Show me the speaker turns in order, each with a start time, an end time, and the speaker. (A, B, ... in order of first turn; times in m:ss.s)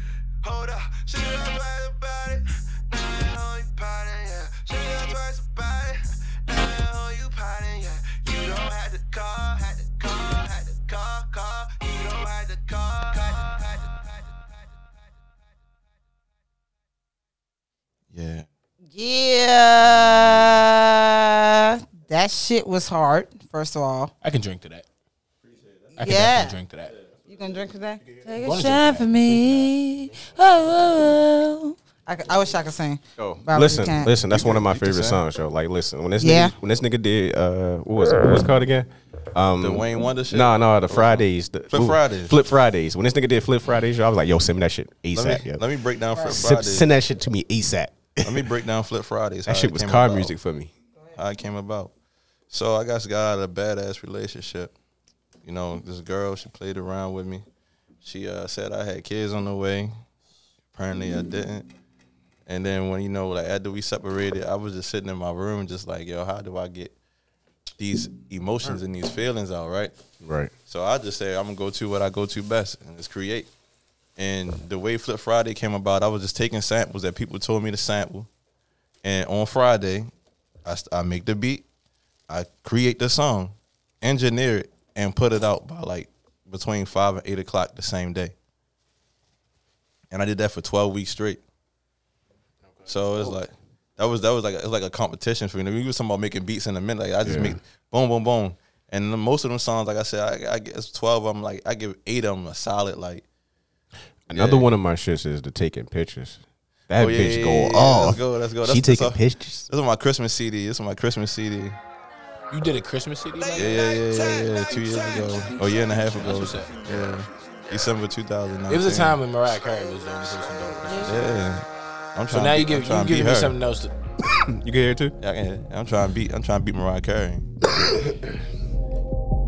0:00.4-0:14.3 A
0:18.1-0:18.4 B
0:18.9-0:24.1 C
0:24.2-0:24.8 D
0:26.0-0:26.6 C
0:26.0-0:26.9 D
0:27.3-0:34.1 C
0:28.4-0:29.6 D
0:33.2-0:45.6 E
0:34.2-0:35.2 B
0:36.2-0:36.5 C
0:39.6-0:42.4 B
0:45.1-0:46.9 B
0:46.2-0:48.5 E
0:48.2-0:50.3 B
0:49.4-0:50.7 E
0:51.2-0:51.9 B
0:52.5-0:54.7 B
0:55.4-0:57.4 B
0:58.0-0:59.9 B
1:00.7-1:01.7 B
1:02.4-1:06.9 B
1:07.8-1:09.9 B
1:10.2-1:10.5 E
1:10.7-1:13.5 B
1:14.2-1:18.3 B
1:19.0-1:20.1 B
1:20.6-1:21.6 B
1:22.3-1:28.3 B
1:30.1-1:31.4 B
1:32.8-1:43.2 B
1:37.2-1:37.6 E
1:44.3-1:49.7 E
1:44.3-1:44.7 B
1:47.0-1:51.8 B
1:52.5-1:53.8 D
1:53.4-1:55.6 A
1:53.6-1:59.2 B
1:56.0-1:56.8 D
1:58.7-2:01.3 D
1:59.7-2:01.0 A
2:01.0-2:03.6 B
2:02.3-2:03.9 D
2:04.2-2:05.1 E
2:05.2-2:07.5 B